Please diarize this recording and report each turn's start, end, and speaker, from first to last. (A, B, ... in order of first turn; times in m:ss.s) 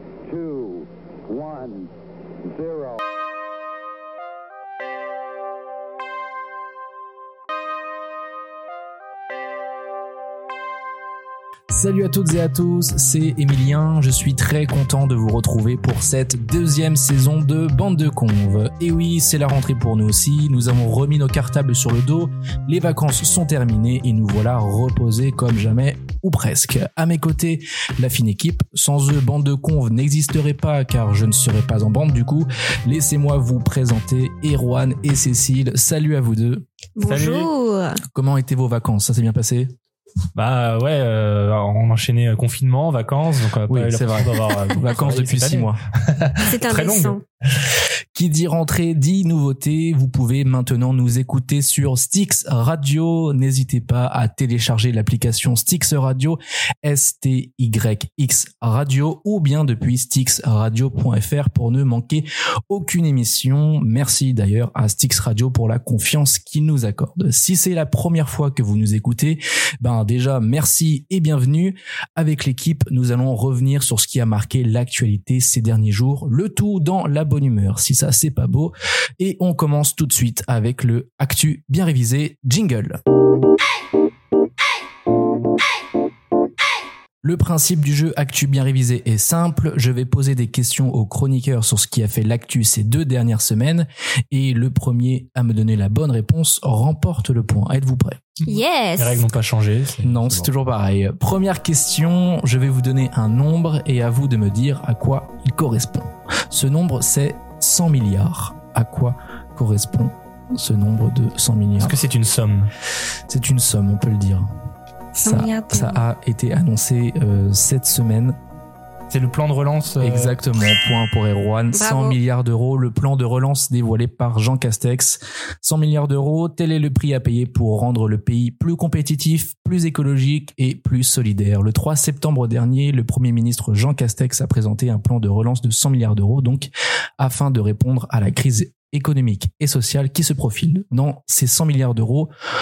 0:00.3-0:01.9 A
0:02.5-0:03.0 A
0:11.7-0:36.6 B
0:37.0-0:38.0 C
0:37.1-0:37.5 D
0:38.1-0:39.7 B
0:40.4-0:47.2 D
0:43.7-0:45.8 B
0:46.5-0:47.2 C
0:48.1-1:23.0 B
1:27.2-1:38.3 B
1:38.4-1:39.3 C
1:39.0-1:40.5 D
1:40.0-1:52.0 B
1:51.8-1:52.7 D
1:53.3-1:54.5 B
1:55.2-1:56.0 C
1:55.2-1:58.4 B
1:59.1-2:00.4 D
2:00.0-2:22.3 B
2:01.7-2:02.2 C